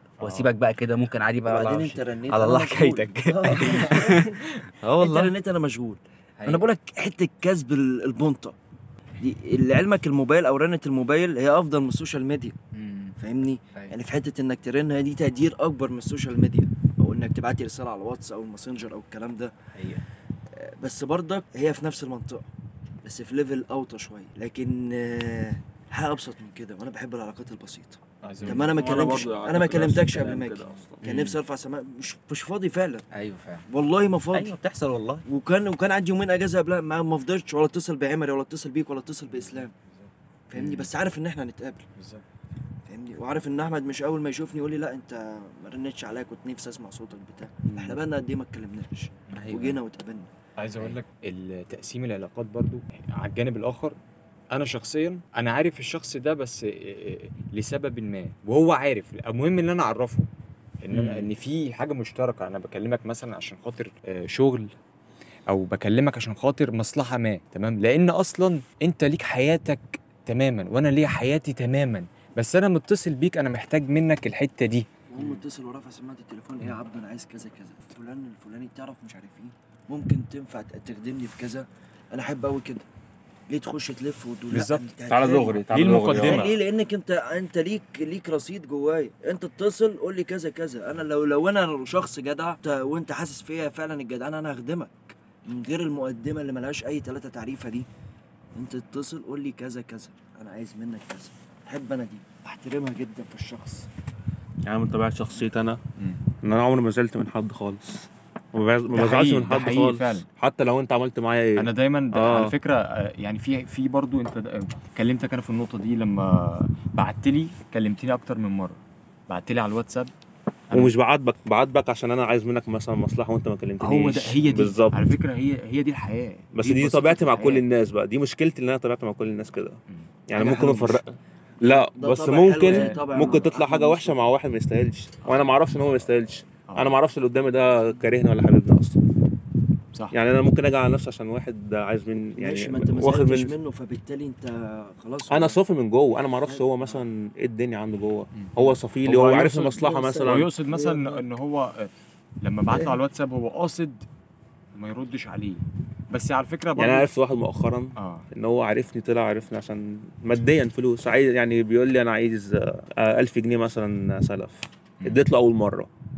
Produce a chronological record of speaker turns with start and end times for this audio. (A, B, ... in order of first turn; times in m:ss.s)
0:00.2-0:04.3 A
0:00.2-0:00.5 B
0:01.4-0:04.3 C
0:03.5-0:03.8 B
0:04.8-0:05.3 A
0:05.0-0:08.5 C
0:09.2-0:12.5 C
0:12.7-0:13.2 A
0:13.2-0:19.5 C
0:19.7-0:20.0 A
0:20.5-0:22.5 C
0:23.0-0:33.0 C
0:28.2-0:28.7 B
0:28.4-0:28.6 A
0:28.6-0:31.0 D
0:31.0-0:31.4 A
0:33.1-0:33.7 A
0:33.7-0:34.5 C
0:34.3-0:35.2 A
0:35.3-0:39.7 C
0:40.5-0:41.8 C
0:40.5-0:40.9 A
0:42.0-0:42.2 B
0:42.8-0:50.3 C
0:49.4-0:49.8 B
0:50.6-0:54.0 B
0:54.5-1:00.3 B
1:00.8-1:04.7 B
1:00.9-1:01.3 A
1:05.5-1:14.9 B
1:15.1-1:22.8 C
1:23.5-1:37.9 C
1:24.5-1:24.9 B
1:25.0-1:26.5 D
1:25.7-1:26.5 B
1:38.5-1:43.9 C
1:44.6-1:45.8 D
1:46.0-1:46.2 B
1:46.4-1:52.5 D
1:48.9-1:50.3 B
1:51.6-2:00.1 B
2:00.7-2:05.0 D
2:03.8-2:07.6 B
2:06.5-2:19.0 D
2:09.9-2:11.0 B
2:10.4-2:10.7 C
2:11.6-2:14.3 C
2:12.7-2:13.4 B
2:15.2-2:15.5 B
2:16.7-2:17.0 B
2:20.1-2:23.5 D
2:22.4-2:25.6 C
2:25.3-2:30.5 D
2:26.4-2:27.0 C
2:28.3-2:29.7 B
2:29.4-2:31.2 C
2:30.2-2:34.0 B
2:32.7-2:33.0 D
2:34.7-2:37.1 B
2:36.8-2:45.9 D
2:38.0-2:38.3 B